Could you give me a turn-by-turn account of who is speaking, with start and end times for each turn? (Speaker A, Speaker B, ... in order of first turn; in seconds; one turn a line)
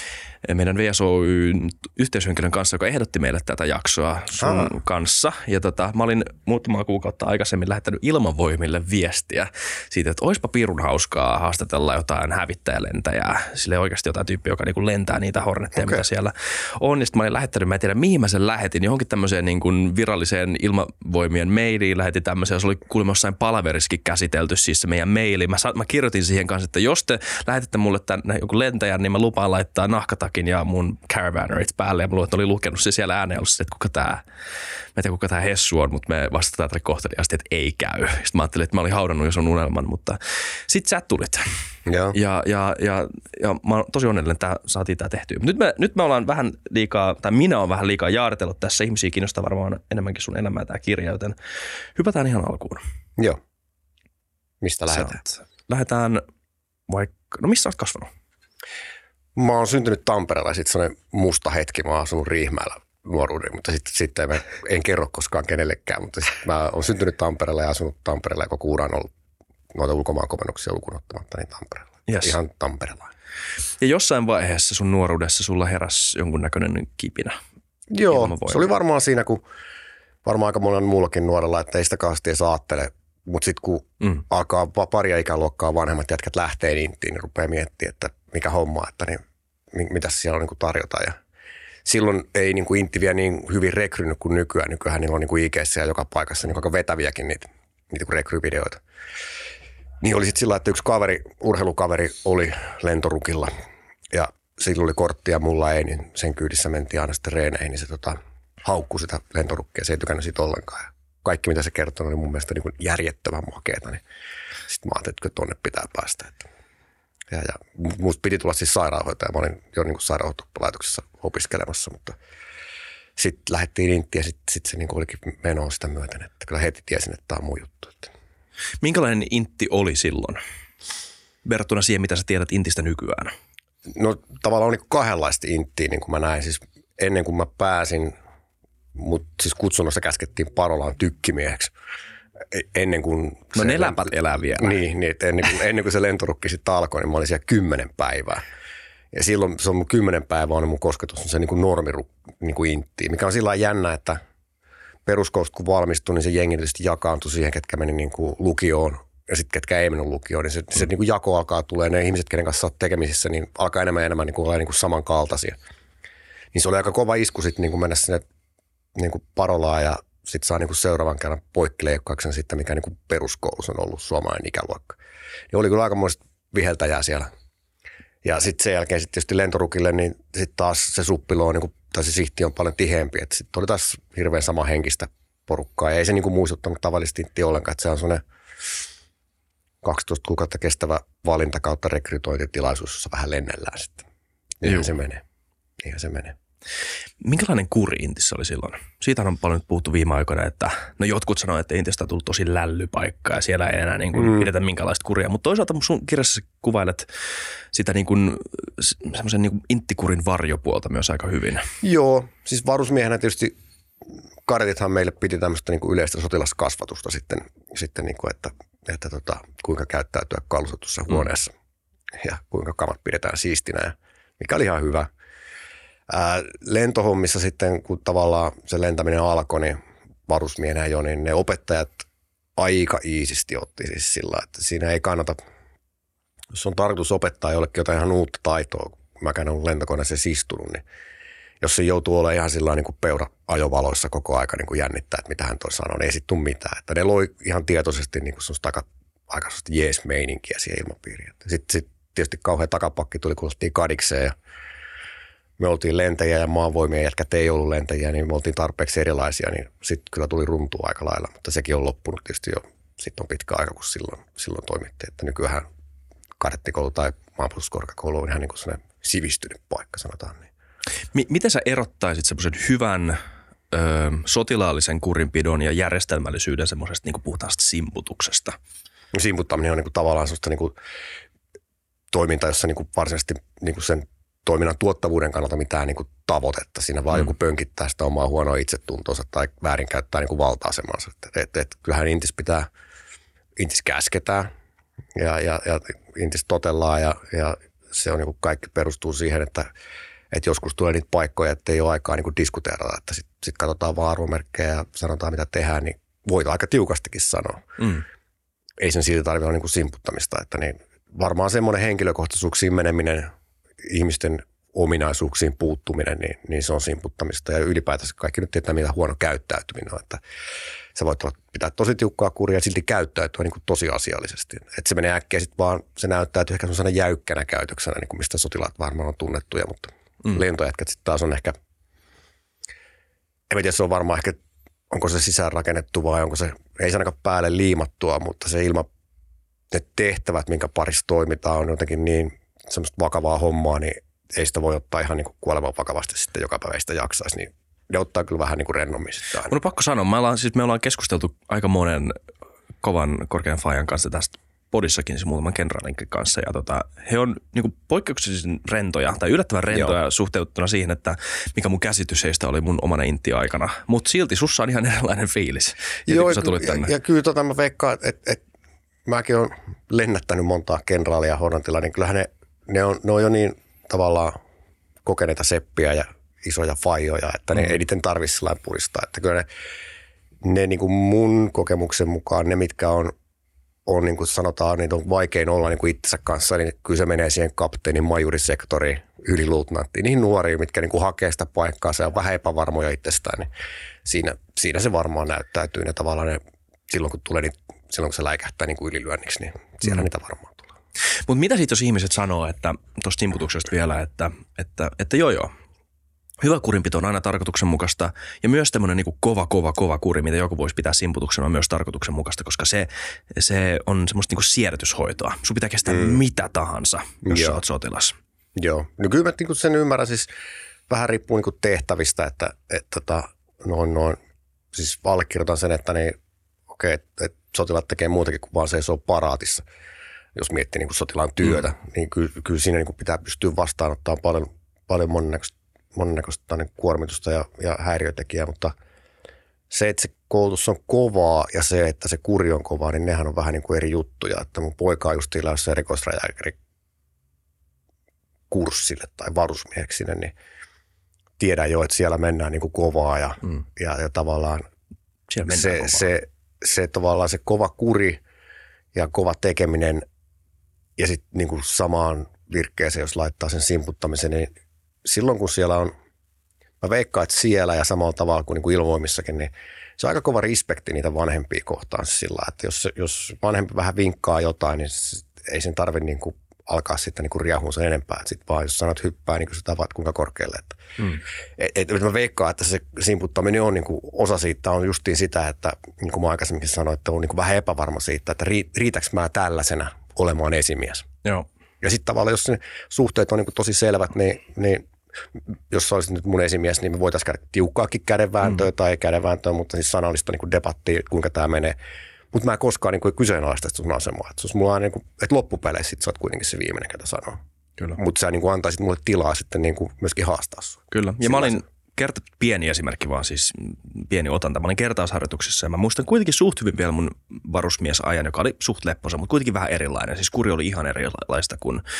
Speaker A: 0.4-34.2
Speaker B: 4.4-4.7
Speaker B: 15.8-16.0
Speaker A: 34.9-41.4
Speaker B: 41.9-42.1
Speaker A: 42.1-51.4
Speaker A: 51.9-52.8
Speaker B: 54.6-55.2
Speaker A: 54.9-56.2
Speaker A: 56.9-58.1
Speaker B: 59.3-69.1
Speaker B: 69.7-73.1
Speaker A: 72.1-72.4
Speaker A: 73.8-77.4
Speaker B: 77.9-79.4
Speaker A: 78.0-78.7
Speaker B: 80.2-89.2
Speaker B: 89.7-91.2
Speaker B: 91.8-98.8
Speaker B: 100.0-103.5
Speaker B: 104.1-114.0
Speaker B: 114.7-116.5
Speaker B: 117.3-122.2
Speaker B: 123.2-128.1
Speaker A: 128.8-130.4
Speaker A: 131.4-133.3
Speaker B: 133.9-138.1
Speaker B: 138.9-141.7
Speaker B: 142.5-148.4
Speaker A: 143.5-144.8
Speaker B: 149.1-154.2
Speaker B: 155.1-165.6
Speaker B: 166.5-168.2
Speaker B: 168.9-175.0
Speaker B: 175.5-177.3
Speaker B: 178.2-188.2
Speaker B: 189.8-194.1
Speaker B: 194.6-195.2
Speaker B: 195.8-196.4
Speaker A: 197.2-207.1
Speaker B: 204.2-204.4
Speaker A: 207.7-211.7
Speaker B: 211.8-213.5
Speaker B: 214.4-221.5
Speaker B: 222.2-225.1
Speaker B: 226.1-232.1
Speaker B: 232.6-235.4
Speaker B: 236.5-240.8
Speaker B: 241.6-254.3
Speaker B: 255.6-265.6
Speaker B: 266.4-270.5
Speaker A: 271.1-273.2
Speaker A: 273.7-278.6
Speaker B: 279.1-280.7
Speaker B: 282.1-292.7
Speaker B: 293.6-294.5
Speaker B: 295.1-299.7
Speaker B: 300.3-307.7
Speaker A: 307.8-308.0
Speaker B: 308.8-313.3
Speaker B: 313.8-320.2
Speaker B: 320.9-331.6
Speaker B: 333.5-334.4
Speaker B: 334.9-338.9
Speaker B: 339.7-349.5
Speaker A: 349.5-352.2
Speaker A: 352.8-366.9
Speaker B: 366.1-368.4
Speaker B: 369.1-374.4
Speaker B: 375.0-379.5
Speaker B: 380.4-383.1
Speaker B: 383.9-393.5
Speaker B: 394.0-400.7
Speaker A: 401.3-405.5
Speaker A: 406.4-418.1
Speaker B: 415.9-416.2
Speaker B: 417.2-417.6
Speaker B: 418.6-420.3
Speaker B: 420.9-424.2
Speaker B: 424.7-426.1
Speaker B: 426.7-429.6
Speaker B: 430.3-438.7
Speaker B: 439.7-446.6
Speaker B: 448.5-450.3
Speaker B: 451.4-454.6
Speaker A: 455.3-456.1
Speaker B: 455.5-458.2
Speaker B: 458.9-460.0
Speaker B: 461.0-464.5
Speaker B: 465.0-465.9
Speaker B: 466.8-480.8
Speaker B: 481.6-491.1
Speaker B: 491.8-501.8
Speaker B: 502.3-507.4
Speaker B: 507.9-511.6
Speaker A: 510.9-521.8